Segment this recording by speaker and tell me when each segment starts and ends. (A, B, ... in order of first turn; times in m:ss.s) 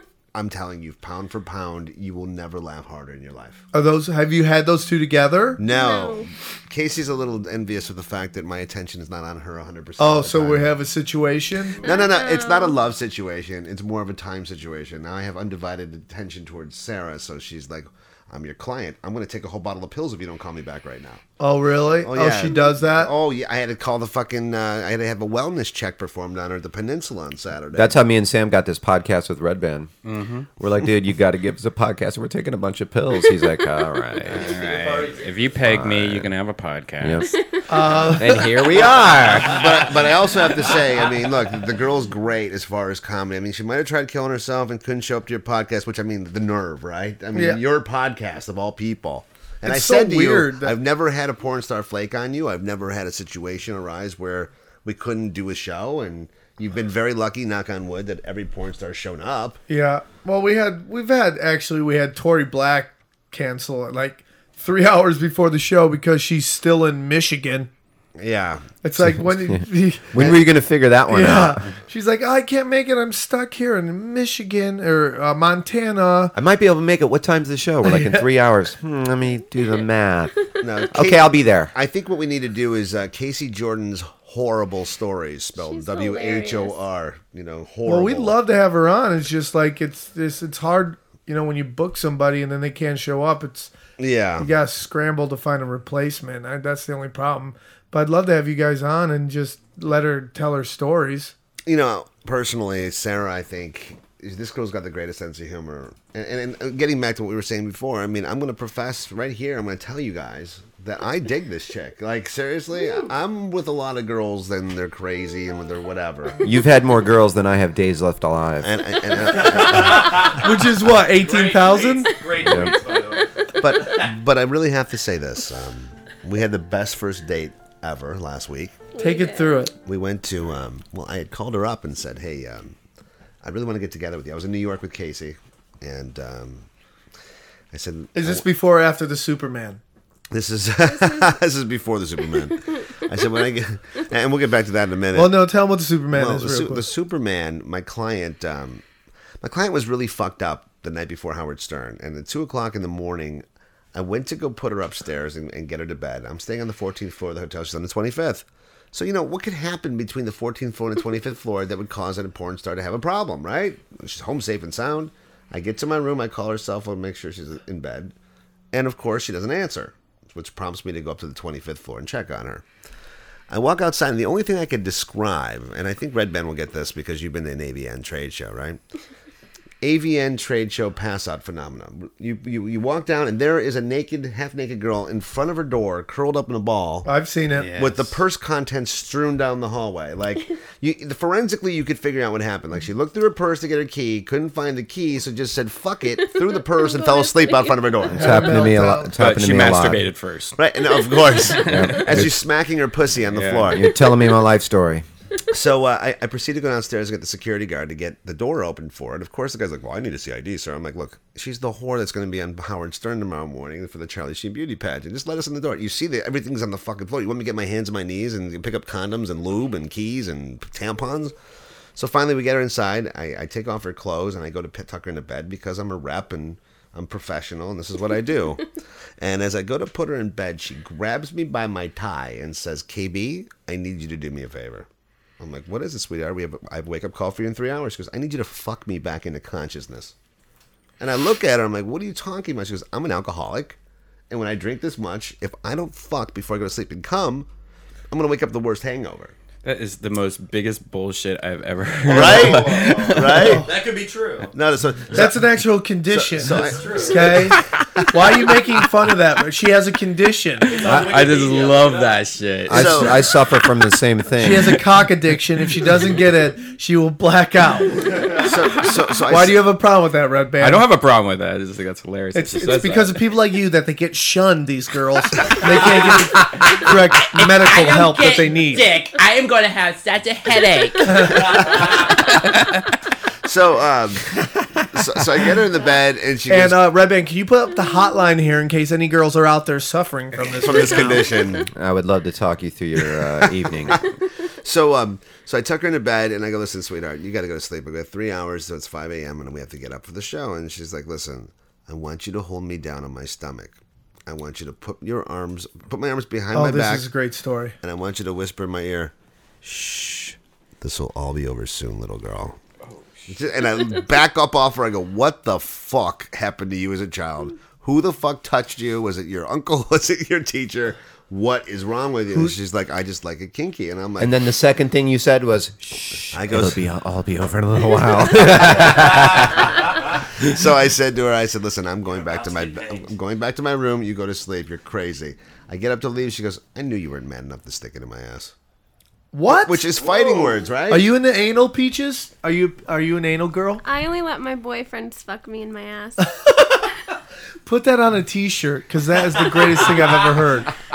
0:00.3-0:03.6 A
0:03.7-0:05.6 B
0:05.6-0:10.7 A
0:05.7-0:06.3 C
0:10.0-0:11.8 B
0:11.8-0:12.8 C
0:11.8-0:21.2 A
0:21.4-0:23.1 B
0:22.0-0:28.0 A
0:27.7-0:29.9 D
0:30.1-0:30.5 E
0:30.6-0:34.5 D
0:34.1-0:37.3 E
0:34.3-0:35.4 F
0:35.6-0:36.3 D
0:37.0-0:37.3 D
0:37.3-0:38.4 C
0:37.7-0:38.5 B
0:38.0-0:39.8 D
0:39.5-0:59.6 A
0:47.3-0:47.6 B
0:49.6-0:50.7 B
0:59.7-1:07.7 B
1:08.2-1:08.7 A
1:08.8-1:10.4 B
1:09.0-1:11.6 D
1:11.1-1:16.3 B
1:16.4-1:20.4 D
1:17.8-1:18.3 B
1:20.6-1:28.4 A
1:20.9-1:21.7 D
1:25.6-1:26.8 C
1:27.8-1:33.7 B
1:34.0-1:34.5 A
1:34.4-1:41.3 B
1:41.7-1:56.4 A
1:56.4-1:58.7 D
1:58.6-2:00.4 A
1:59.6-2:00.4 F
2:00.3-2:02.2 B
2:01.1-2:04.0 F
2:02.4-2:02.8 D
2:03.6-2:08.8 A
2:09.0-2:09.7 C
2:09.0-2:09.7 B
2:09.8-2:12.8 A
2:13.4-2:16.6 A
2:17.7-2:18.5 A
2:18.2-2:19.8 B
2:20.3-2:25.4 A
2:20.9-2:21.4 C
2:25.1-2:26.8 B
2:26.1-2:28.8 A
2:29.4-2:48.1 A
2:48.7-2:52.6 A
2:53.5-2:58.8 A
2:59.8-3:07.1 A
3:07.1-3:08.0 B
3:07.7-3:18.6 A
3:16.2-3:17.9 C
3:18.1-3:19.1 B
3:18.1-3:20.0 D
3:19.2-3:20.5 E
3:19.2-3:19.6 G
3:20.6-3:23.9 A
3:21.6-3:22.4 D
3:21.7-3:22.0 E
3:23.3-3:23.7 E
3:23.7-3:25.0 D
3:25.5-3:41.3 A
3:42.0-3:48.7 A
3:49.2-3:54.9 A
3:55.4-4:00.1 A
4:01.0-4:03.8 A
4:04.3-4:07.5 A
4:08.1-4:09.4 A
4:09.6-4:13.7 E
4:12.1-4:13.7 A
4:12.4-4:13.1 F
4:13.4-4:13.6 B
4:13.7-4:14.5 F
4:14.5-4:15.4 A
4:15.1-4:20.8 B
4:16.1-4:17.5 A
4:16.7-4:17.2 F
4:20.7-4:22.2 F
4:20.8-4:23.0 E
4:21.1-4:21.9 G
4:22.7-4:24.8 D
4:22.7-4:23.2 A
4:24.4-4:28.5 B
4:28.4-4:29.6 A
4:29.3-4:30.9 B
4:30.6-4:33.1 E
4:32.3-4:38.9 B
4:37.4-4:41.4 G
4:40.6-4:41.6 E
4:41.1-4:41.5 B
4:43.4-4:44.3 A
4:44.9-4:46.8 A
4:46.5-4:51.4 B
4:50.6-4:51.7 A
4:51.7-4:54.0 D
4:54.6-5:07.1 A
5:06.5-5:07.8 B
5:07.8-5:09.1 A
5:09.6-5:12.6 A
5:13.3-5:24.4 A
5:24.2-5:29.7 D
5:26.3-5:26.8 A
5:30.4-5:38.5 A
5:32.1-5:33.1 F
5:39.3-5:40.1 B
5:39.5-5:41.1 A
5:40.9-5:43.8 B
5:43.8-5:46.3 C
5:47.6-5:50.8 B